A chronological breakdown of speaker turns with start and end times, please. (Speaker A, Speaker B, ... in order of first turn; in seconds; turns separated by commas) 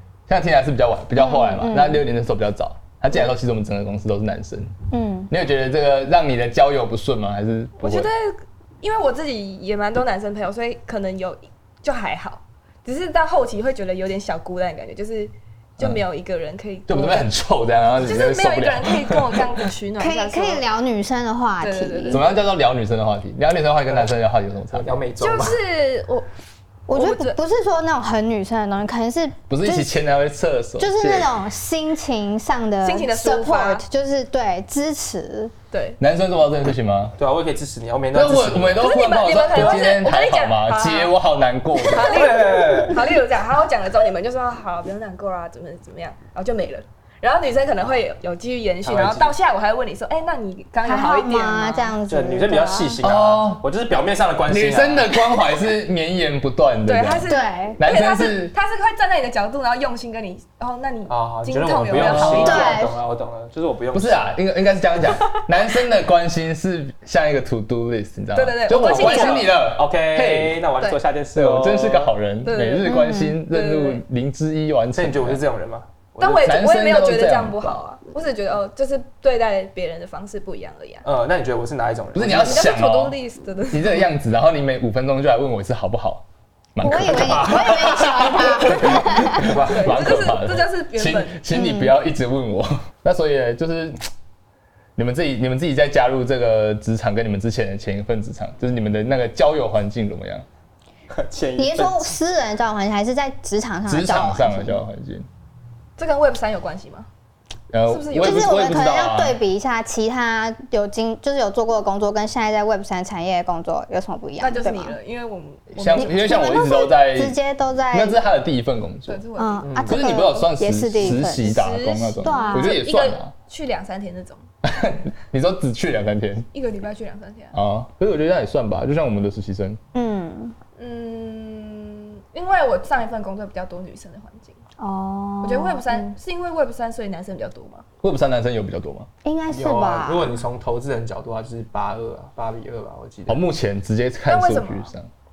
Speaker A: 0.3-4.8, Speaker B: 1.2-2.0, Speaker B: 4.9-5.3, Speaker A: 5.3-8.1, Speaker C: 7.8-17.3, Speaker A: 16.9-19.4, Speaker C: 18.0-20.6, Speaker B: 20.0-22.2, Speaker C: 21.6-22.3, Speaker A: 22.1-25.0, Speaker D: 24.7-25.6, Speaker C: 25.2-26.3, Speaker B: 26.9-30.0, Speaker C: 26.9-27.4, Speaker A: 29.5-31.3, Speaker B: 30.8-35.5, Speaker C: 32.8-33.8, Speaker C: 35.7-36.0, Speaker A: 36.0-37.2, Speaker D: 37.2-38.9, Speaker A: 38.1-42.4, Speaker C: 38.8-41.1, Speaker C: 41.8-52.0, Speaker D: 42.0-43.1, Speaker D: 48.8-49.3, Speaker B: 50.8-53.0, Speaker D: 52.1-55.1, Speaker A: 53.0-53.6, Speaker A: 54.5-58.5, Speaker C: 56.9-62.8, Speaker B: 57.3-57.8, Speaker D: 61.1-64.4, Speaker A: 61.9-62.8, Speaker B: 62.4-63.0, Speaker A: 63.9-70.6, Speaker C: 68.3-69.5, Speaker D: 68.7-72.1, Speaker A: 71.3-75.4, Speaker C: 72.5-74.0, Speaker B: 72.8-73.4, Speaker D: 74.9-76.5, Speaker C: 76.2-81.1, Speaker A: 76.3-77.8, Speaker D: 81.0-82.7, Speaker A: 82.2-83.2, Speaker C: 82.4-84.0, Speaker A: 83.7-86.2, Speaker A: 86.8-94.0, Speaker B: 86.8-89.5, Speaker D: 87.1-88.7, Speaker D: 89.3-90.1, Speaker C: 89.7-91.4, Speaker B: 91.5-92.0, Speaker A: 95.0-100.5, Speaker D: 101.1-102.1, Speaker B: 101.6-104.8, Speaker A: 103.9-105.3, Speaker C: 106.0-107.1, Speaker A: 107.7-109.4, Speaker C: 107.9-108.8, Speaker B: 108.2-115.0, Speaker C: 114.4-116.4, Speaker A: 115.8-117.4, Speaker B: 115.9-118.2, Speaker A: 117.9-119.2, Speaker C: 119.1-119.9, Speaker B: 119.4-121.7, Speaker D: 119.6-120.0, Speaker A: 119.9-123.3, Speaker C: 121.1-124.4, Speaker B: 122.2-122.8, Speaker A: 124.6-126.5, Speaker C: 126.5-127.6, Speaker A: 127.5-129.8, Speaker B: 129.9-130.6, Speaker C: 130.8-134.6, Speaker B: 134.8-136.2, Speaker C: 135.4-137.8, Speaker A: 138.0-139.1, Speaker B: 139.2-140.4, Speaker D: 139.5-143.4, Speaker A: 143.3-145.1, Speaker C: 144.3-144.9